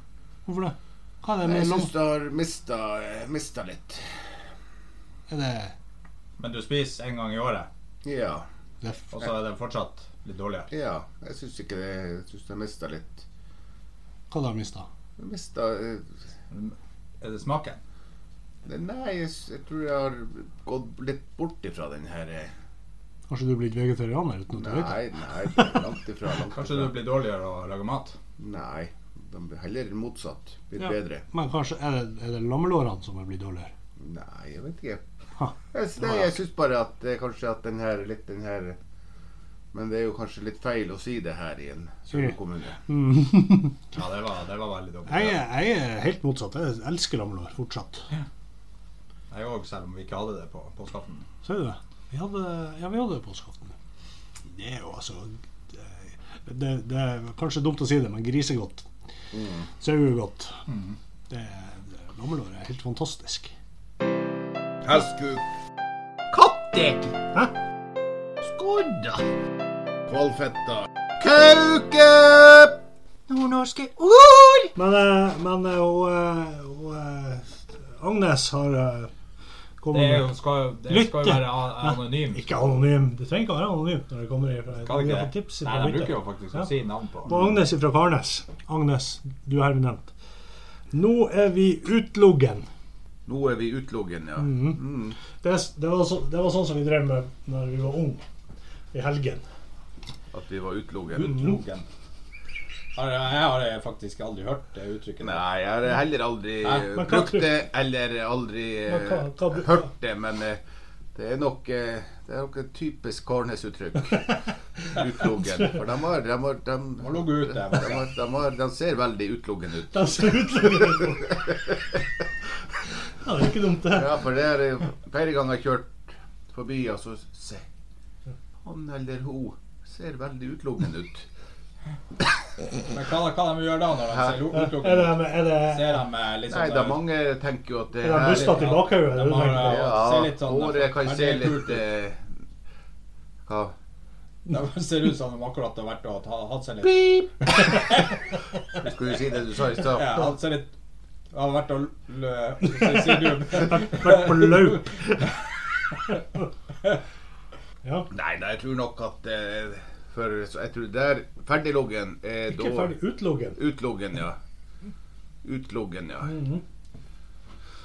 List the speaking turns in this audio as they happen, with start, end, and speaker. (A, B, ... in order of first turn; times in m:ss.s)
0:00.5-0:01.9 A
0:01.4-0:04.2 B
0:05.3-0:05.7 A
0:06.4-0:07.7 C
0:08.0-0:08.5 B
0:08.8-0:09.1 A
0:09.1-0:10.7 C
0:10.7-0:13.3 B
0:14.3-0:14.9 A
0:15.2-0:16.1 B
0:16.5-0:17.8 C
0:18.6-0:22.5 B
0:23.3-0:25.7 A
0:24.6-0:26.9 B
0:26.5-0:28.2 C
0:28.4-0:31.2 B
0:30.8-0:33.7 A
0:34.0-0:35.0 B
0:35.7-0:38.8 B
0:39.7-0:42.8 B
0:42.9-0:43.8 A
0:43.9-0:45.4 C
0:45.1-0:48.0 A
0:49.3-0:51.3 C
0:51.4-0:53.7 A
0:54.5-0:58.9 A
0:59.3-0:59.6 B
0:59.8-1:00.6 A
1:00.7-1:01.0 C
1:01.3-1:03.5 A
1:04.8-1:05.4 B
1:06.3-1:07.1 C
1:08.6-1:09.2 C
1:10.1-1:12.8 B
1:13.3-1:14.7 C
1:14.8-1:19.1 A
1:19.8-1:20.3 A
1:19.9-1:22.7 C
1:20.9-1:26.7 A
1:24.9-1:27.4 C
1:27.3-1:30.1 A
1:30.9-1:32.7 A
1:33.3-1:35.2 B
1:34.4-1:38.2 A
1:38.9-1:39.4 A
1:40.3-1:41.6 B
1:41.2-1:41.9 C
1:43.0-1:45.4 C
1:45.2-1:50.6 B
1:46.9-1:47.5 A
1:48.9-1:49.9 A
1:51.2-1:54.4 B
1:54.9-2:00.0 B
1:57.0-1:58.1 C
1:59.9-2:01.4 A
2:03.2-2:04.2 A
2:03.9-2:07.7 B
2:08.6-2:11.3 B
2:12.9-2:17.0 C
2:14.5-2:16.0 A
2:16.5-2:18.7 B
2:18.0-2:20.0 A
2:18.2-2:21.9 C
2:19.6-2:22.3 B
2:23.5-2:23.7 B
2:24.5-2:28.1 C
2:28.8-2:30.2 B
2:29.8-2:30.7 C
2:31.3-2:35.0 C
2:32.9-2:35.2 A
2:37.8-2:38.1 A
2:38.1-2:43.0 B
2:42.5-2:43.6 A
2:43.6-2:44.4 B
2:45.4-2:46.4 B
2:46.2-2:46.6 A